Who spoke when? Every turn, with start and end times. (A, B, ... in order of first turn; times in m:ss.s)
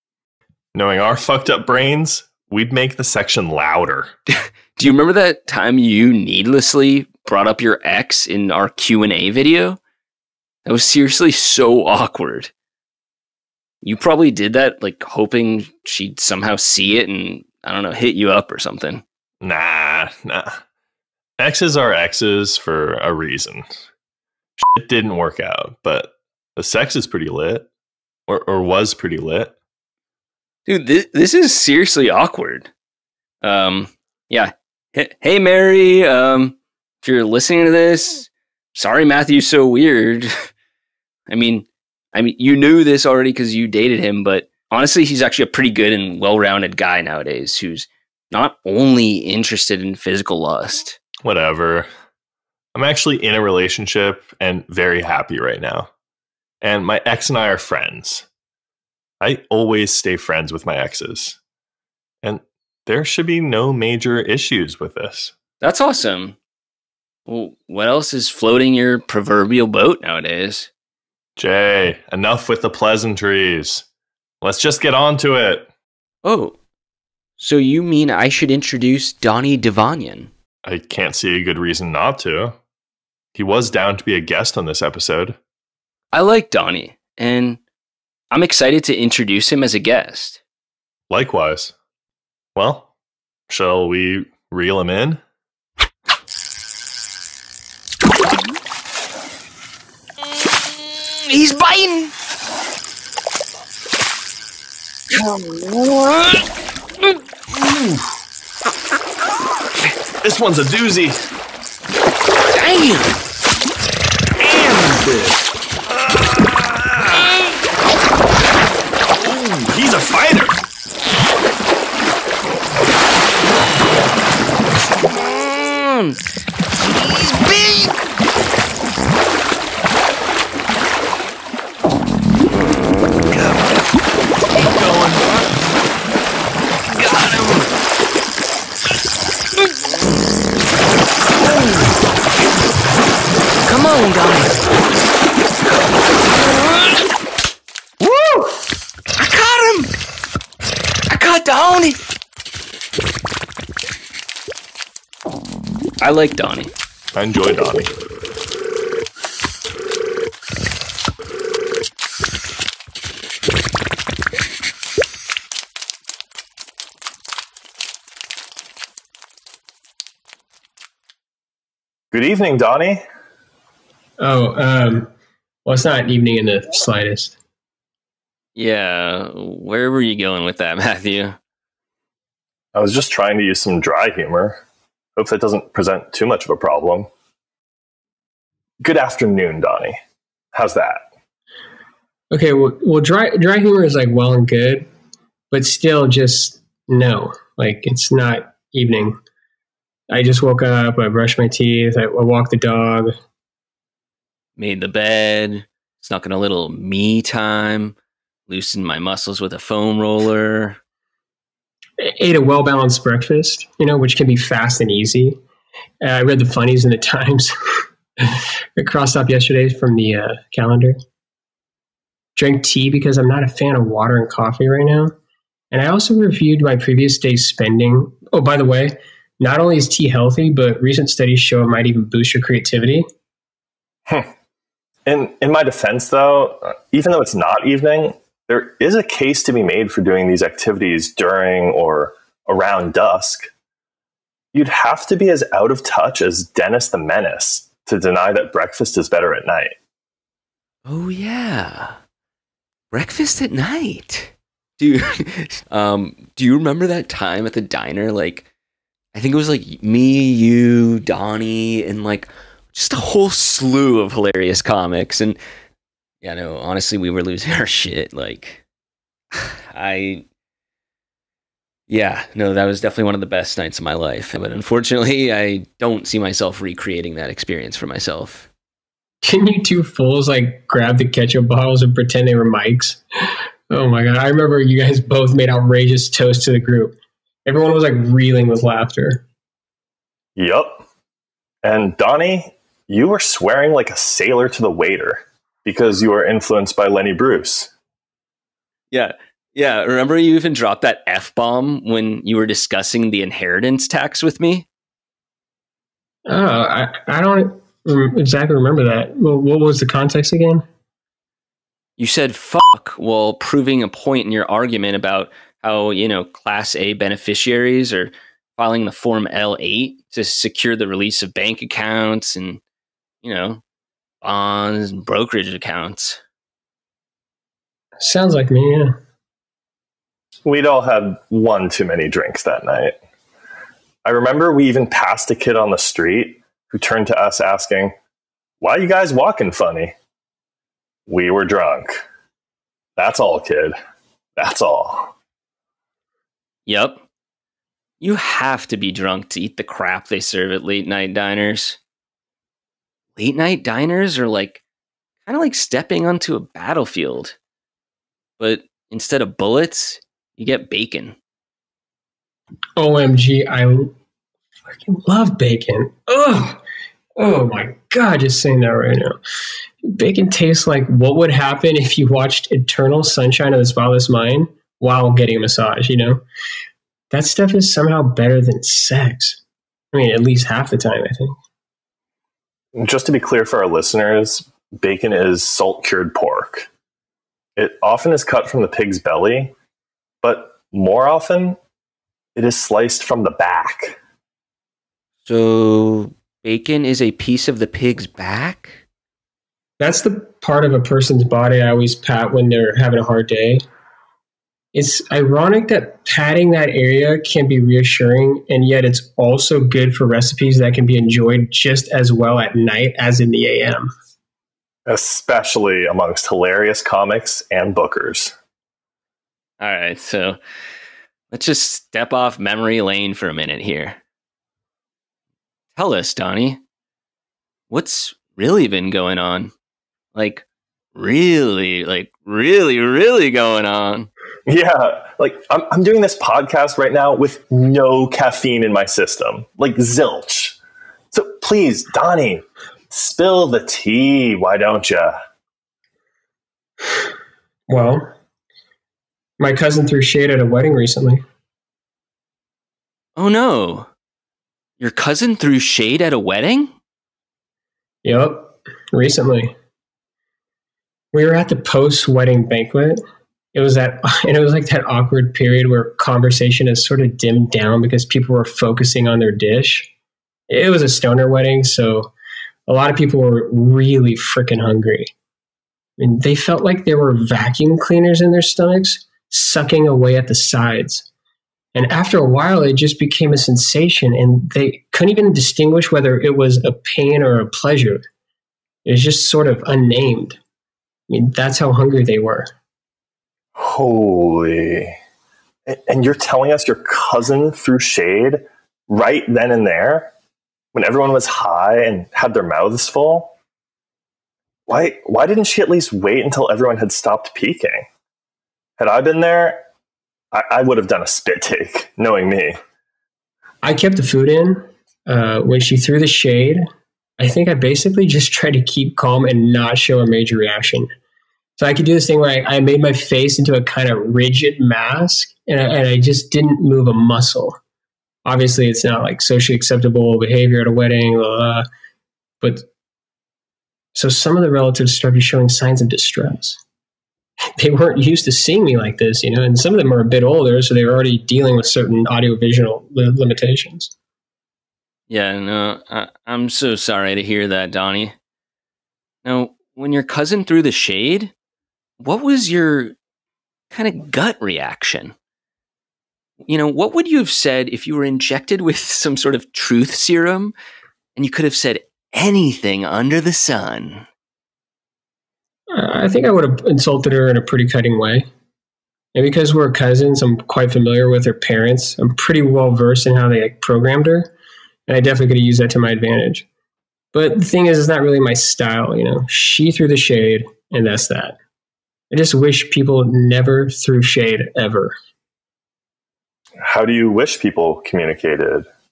0:00.7-0:04.1 A
0:04.8-0:09.8 B
0:10.6-0:12.5 B
0:13.8-0:19.0 B
0:19.4-0:20.6 A
0:21.4-0:23.8 A
0:24.6-0:27.7 A
0:28.3-0:29.5 A
0:30.7-0:32.7 B
0:33.4-0:40.5 B
0:41.3-0:51.0 B
0:51.2-0:51.9 A
0:52.7-0:55.9 A
0:56.6-0:58.2 A
0:59.2-1:01.4 A
1:02.2-1:05.3 A
1:05.6-1:06.4 B
1:07.2-1:10.7 B
1:11.4-1:13.8 A
1:14.4-1:15.7 A
1:16.2-1:16.6 B
1:17.4-1:20.3 B
1:20.6-1:22.6 A
1:23.4-1:25.4 A
1:26.1-1:27.6 B
1:28.3-1:30.4 B
1:31.1-1:31.8 A
1:32.6-1:32.9 A
1:33.5-1:35.2 A
1:40.4-1:42.1 B
1:45.2-1:46.4 B
1:47.5-1:48.1 A
1:50.2-1:51.2 A
1:52.5-1:53.2 B
1:54.4-1:57.3 A
1:59.1-2:00.6 A
2:05.1-2:06.2 B
2:06.8-2:08.0 B
2:13.3-2:13.7 B
2:14.5-2:15.2 A
2:16.9-2:17.7 B
2:23.6-2:24.6 B
2:26.5-2:27.0 B
2:28.0-2:28.6 B
2:29.1-2:29.9 B
2:31.1-2:32.0 B
2:36.0-2:36.7 B
2:37.1-2:37.9 A
2:52.1-2:53.0 A
2:54.2-2:55.1 C
2:55.7-2:57.4 C
2:58.6-3:01.4 B
3:02.8-3:04.6 A
3:05.2-3:07.1 A
3:08.8-3:10.0 A
3:10.5-3:11.0 A
3:12.3-3:14.9 C
3:15.5-3:19.2 C
3:20.1-3:23.1 C
3:24.6-3:28.0 B
3:28.5-3:30.8 B
3:32.0-3:35.4 C
3:36.0-3:37.5 C
3:38.2-3:41.0 C
3:42.4-3:45.1 C
3:45.7-3:53.0 C
3:55.0-4:03.5 A
4:04.5-4:09.8 A
4:10.8-4:12.0 B
4:12.9-4:18.5 B
4:19.1-4:25.4 B
4:26.2-4:28.6 B
4:29.3-4:30.2 B
4:31.9-4:38.5 B
4:39.2-4:43.0 C
4:43.7-4:49.2 C
4:50.4-4:50.8 A
4:51.6-4:57.7 A
4:58.9-5:04.7 B
5:06.3-5:10.6 C
5:12.0-5:22.6 B
5:23.2-5:23.6 B
5:24.2-5:26.2 B
5:28.0-5:29.0 C
5:30.4-5:33.0 A
5:34.0-5:38.0 A
5:38.6-5:40.0 A
5:41.1-5:42.0 A
5:43.0-5:43.8 A
5:44.4-5:45.1 A
5:46.7-5:47.0 B
5:48.0-5:51.8 B
5:53.2-5:54.6 B
5:55.2-5:57.4 B
5:58.4-6:01.2 B
6:02.8-6:03.9 C
6:04.7-6:06.6 C
6:07.2-6:09.2 C
6:09.8-6:16.2 C
6:17.1-6:19.4 C
6:19.9-6:21.4 C
6:22.8-6:26.7 A
6:27.6-6:29.5 A
6:30.2-6:31.6 A
6:32.4-6:34.0 A
6:35.2-6:38.8 B
6:39.8-6:43.6 C
6:44.7-6:53.9 C
6:54.8-6:58.3 A
6:59.6-7:00.4 B
7:01.3-7:04.0 B
7:05.8-7:06.6 B
7:07.7-7:09.5 B
7:10.1-7:10.4 B
7:11.0-7:14.1 B
7:14.5-7:20.6 A
7:21.1-7:25.2 A
7:27.7-7:28.1 C
7:29.4-7:31.2 C
7:33.2-7:33.9 B
7:34.8-7:36.7 B
7:38.0-7:39.5 C
7:41.1-7:43.0 C
7:43.5-7:49.9 C
7:50.5-7:52.1 C
7:52.7-7:55.1 C
7:56.0-8:01.1 C
8:01.8-8:08.0 C
8:08.8-8:10.4 C
8:11.1-8:12.5 C
8:13.6-8:15.0 A
8:15.7-8:20.1 A
8:20.7-8:23.3 A
8:24.7-8:27.9 A
8:28.8-8:29.6 A
8:30.3-8:32.6 A
8:33.6-8:36.6 C
8:37.2-8:40.9 C
8:41.6-8:47.6 C
8:48.2-8:51.6 C
8:52.4-8:52.7 C
8:54.0-8:56.6 C
8:57.6-9:03.9 C
9:05.1-9:08.2 B
9:09.2-9:11.3 B
9:12.0-9:13.0 B
9:13.7-9:15.1 B
9:16.4-9:20.5 B
9:21.2-9:24.1 B
9:25.7-9:28.3 C
9:29.1-9:34.3 C
9:34.9-9:36.5 C
9:37.1-9:41.4 C
9:42.1-9:45.0 C
9:46.6-9:48.7 A